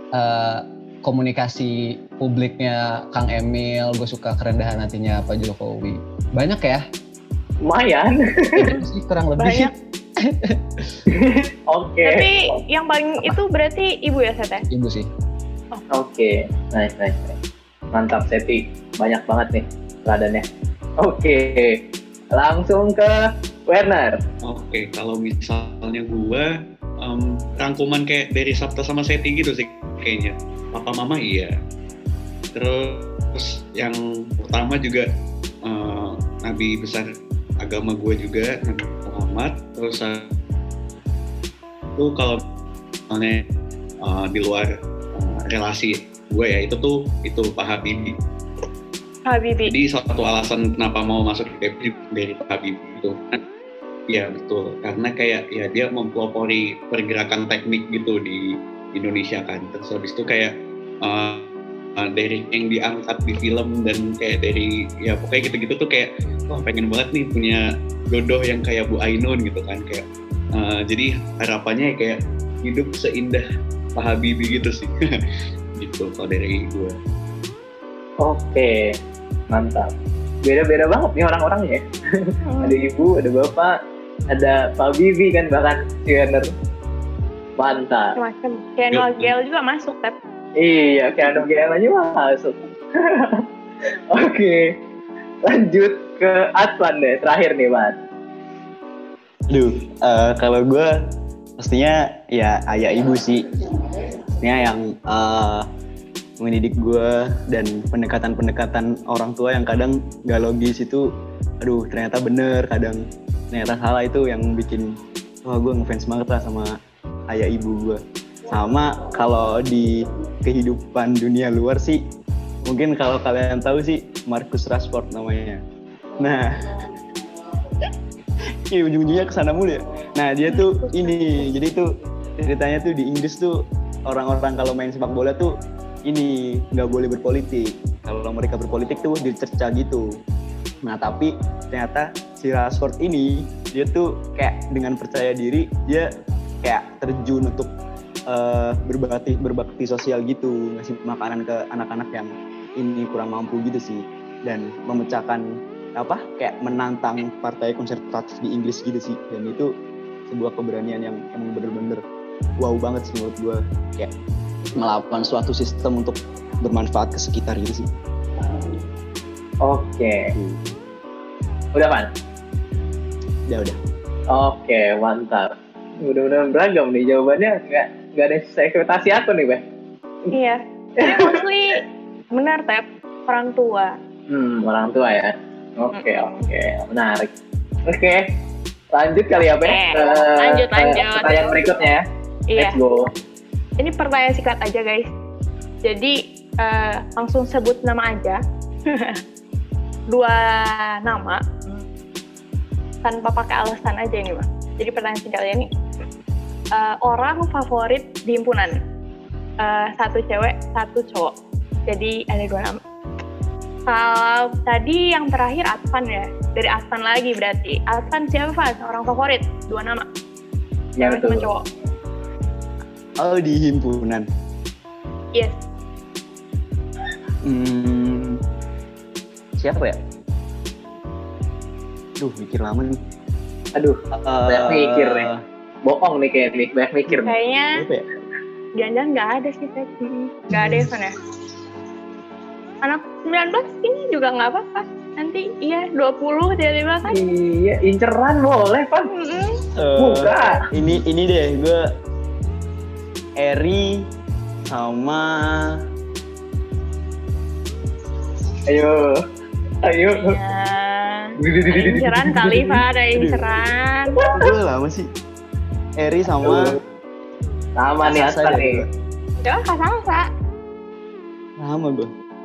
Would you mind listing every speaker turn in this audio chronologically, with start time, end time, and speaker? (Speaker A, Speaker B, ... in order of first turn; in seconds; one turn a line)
Speaker A: 0.1-6.8
Speaker B: 7.7-8.7
Speaker A: 8.6-10.6
Speaker C: 9.4-9.7
Speaker B: 11.1-12.3
Speaker C: 12.0-14.6
Speaker A: 14.7-15.1
Speaker B: 15.9-17.4
Speaker B: 17.9-20.4
Speaker B: 21.0-21.8
Speaker B: 22.3-24.2
Speaker D: 24.4-26.5
Speaker D: 27.0-31.5
Speaker D: 32.5-35.1
Speaker D: 35.6-37.1
Speaker D: 37.6-40.3
Speaker D: 42.0-42.4
Speaker D: 43.1-43.5
Speaker D: 44.0-48.1
Speaker C: 49.2-49.7
Speaker D: 49.7-53.4
Speaker D: 54.1-60.5
Speaker D: 61.0-73.4
Speaker D: 74.0-74.9
Speaker D: 75.8-77.0
Speaker B: 78.2-78.9
Speaker B: 79.5-79.9
Speaker B: 80.4-83.7
Speaker C: 82.4-82.8
Speaker B: 84.3-86.5
Speaker B: 87.6-88.2
Speaker C: 88.2-90.1
Speaker D: 88.9-89.3
Speaker B: 90.6-93.4
Speaker B: 94.1-94.7
Speaker B: 95.4-98.0
Speaker E: 99.5-100.9
Speaker E: 101.6-103.4
Speaker E: 104.4-105.7
Speaker E: 106.4-111.1
Speaker E: 111.6-113.0
Speaker E: 113.5-114.8
Speaker E: 115.4-116.7
Speaker E: 117.3-122.0
Speaker E: 122.6-125.6
Speaker E: 126.2-126.7
Speaker E: 128.7-133.6
Speaker C: 130.5-131.4
Speaker E: 134.1-135.5
Speaker E: 136.1-140.0
Speaker E: 140.8-146.1
Speaker E: 146.6-147.7
Speaker E: 148.3-155.4
Speaker E: 156.0-159.7
Speaker E: 160.3-162.0
Speaker E: 162.6-164.1
Speaker E: 164.8-167.9
Speaker B: 169.6-170.3
Speaker E: 170.3-170.6
Speaker B: 171.7-172.1
Speaker E: 173.5-173.8
Speaker B: 174.3-179.6
Speaker C: 180.3-183.9
Speaker B: 181.0-181.4
Speaker B: 184.3-187.3
Speaker C: 185.9-186.5
Speaker B: 187.9-188.2
Speaker B: 188.9-192.0
Speaker C: 189.6-191.6
Speaker C: 192.5-192.8
Speaker B: 192.6-193.1
Speaker C: 193.8-195.1
Speaker C: 195.8-199.2
Speaker C: 200.1-201.8
Speaker C: 203.0-205.7
Speaker C: 206.7-208.8
Speaker C: 209.6-211.3
Speaker C: 211.9-212.8
Speaker C: 213.9-220.1
Speaker B: 221.0-221.5
Speaker C: 221.0-221.6
Speaker E: 223.2-224.2
Speaker E: 227.4-228.4
Speaker E: 229.6-230.0
Speaker E: 232.2-232.9
Speaker B: 233.8-235.2
Speaker E: 234.1-235.4
Speaker B: 235.8-237.3
Speaker E: 237.1-238.0
Speaker C: 237.2-237.8
Speaker C: 238.8-241.1
Speaker C: 242.8-247.2
Speaker B: 247.1-249.1
Speaker C: 249.1-249.6
Speaker E: 249.8-251.8
Speaker B: 250.0-250.6
Speaker E: 253.4-254.0
Speaker E: 254.7-255.7
Speaker B: 258.7-259.2
Speaker B: 259.8-260.4
Speaker C: 260.1-264.3
Speaker B: 261.4-262.4
Speaker E: 263.1-263.5
Speaker B: 264.2-264.5
Speaker E: 264.3-265.1
Speaker E: 266.0-266.8
Speaker B: 266.4-266.8
Speaker B: 267.8-268.8
Speaker E: 268.0-268.9
Speaker C: 269.4-270.3
Speaker E: 271.6-272.1